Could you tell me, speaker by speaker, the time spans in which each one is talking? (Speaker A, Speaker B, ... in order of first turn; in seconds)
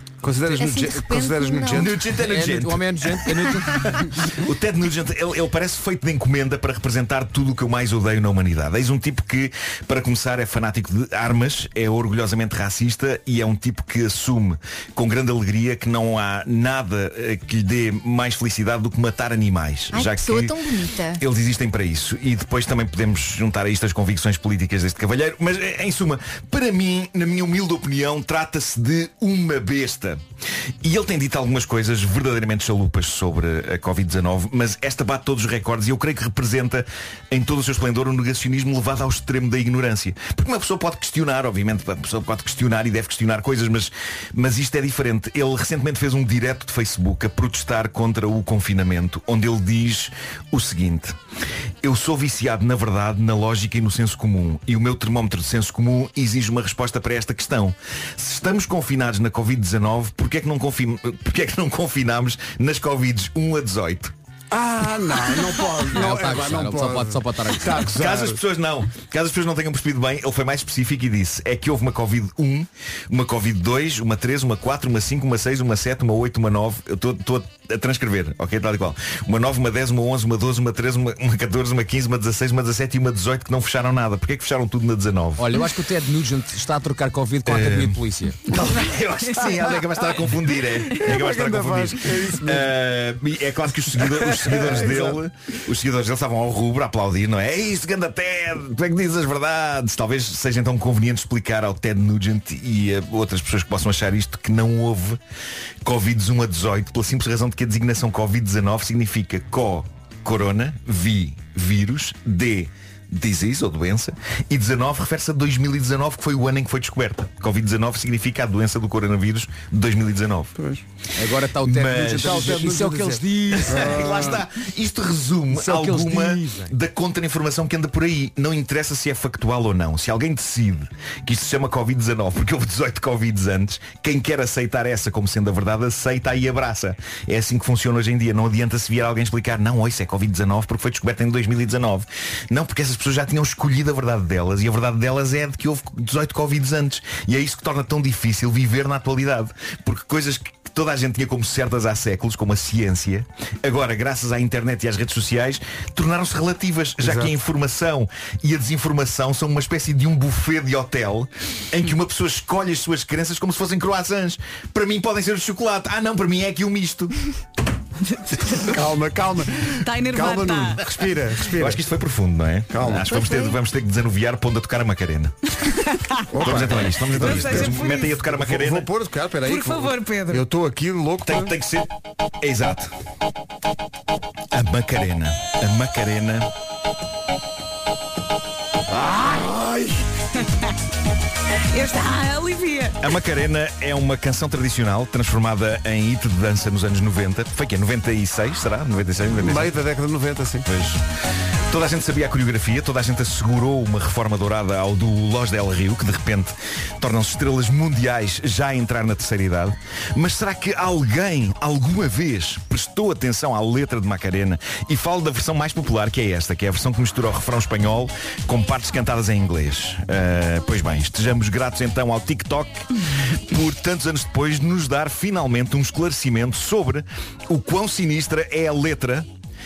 Speaker A: 0.2-2.0, 64.5-68.4, 91.0-92.7, 94.2-95.2, 120.6-120.8, 122.1-124.4, 157.0-157.3, 168.6-171.8, 172.7-173.5, 176.3-181.5, 189.0-189.9, 199.4-200.7
Speaker B: 0.5-2.1, 19.9-21.2
Speaker C: 1.7-2.9, 4.3-20.6, 21.2-30.2, 30.8-51.2, 51.8-64.1, 67.9-85.5, 87.5-105.2, 105.8-120.5, 121.6-122.4, 123.6-167.1, 171.6-175.3, 176.4-178.9, 181.2-182.9, 184.5-186.5, 193.0-199.8, 200.7-201.0, 201.7-222.9, 223.5-229.3
Speaker D: 2.1-4.1, 65.9-68.0, 85.4-88.5, 121.2-124.3, 125.5-126.7
Speaker E: 168.2-168.7, 169.8-170.8, 175.7-176.2, 177.1-178.2, 179.4-180.4, 191.7-193.0